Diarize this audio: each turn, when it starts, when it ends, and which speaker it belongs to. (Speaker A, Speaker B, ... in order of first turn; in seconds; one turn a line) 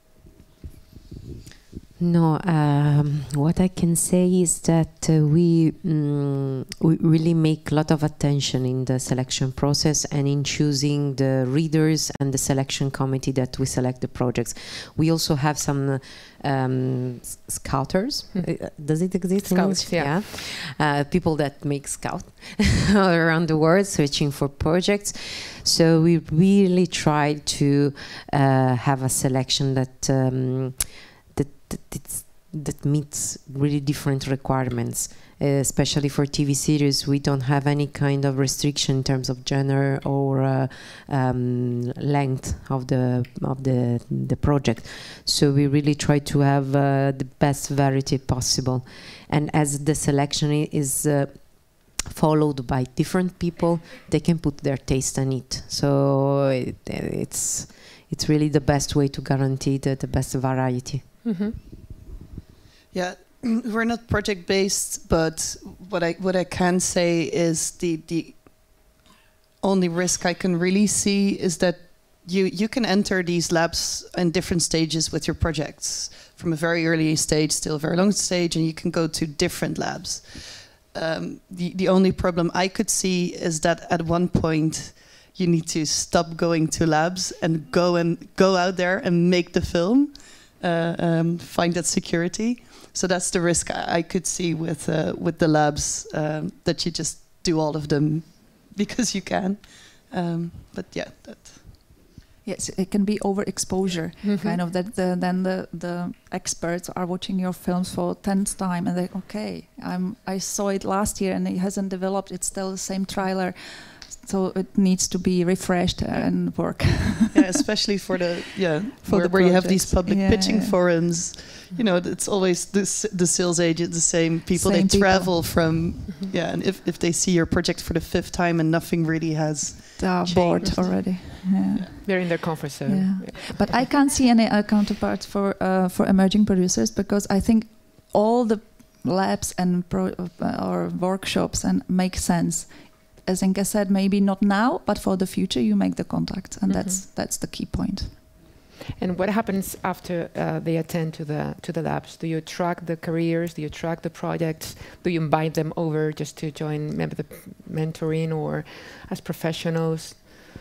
Speaker A: 2.0-61.2
Speaker B: 18.4-20.1
Speaker B: 61.2-61.5
Speaker C: 62.9-69.0
Speaker C: 69.6-101.8
Speaker D: 102.4-117.4
Speaker B: 104.2-104.5
Speaker C: 117.3-131.9
Speaker D: 119.0-120.8
Speaker D: 124.5-125.8
Speaker D: 130.0-148.2
Speaker B: 132.0-133.8
Speaker B: 146.7-147.0
Speaker B: 149.0-160.3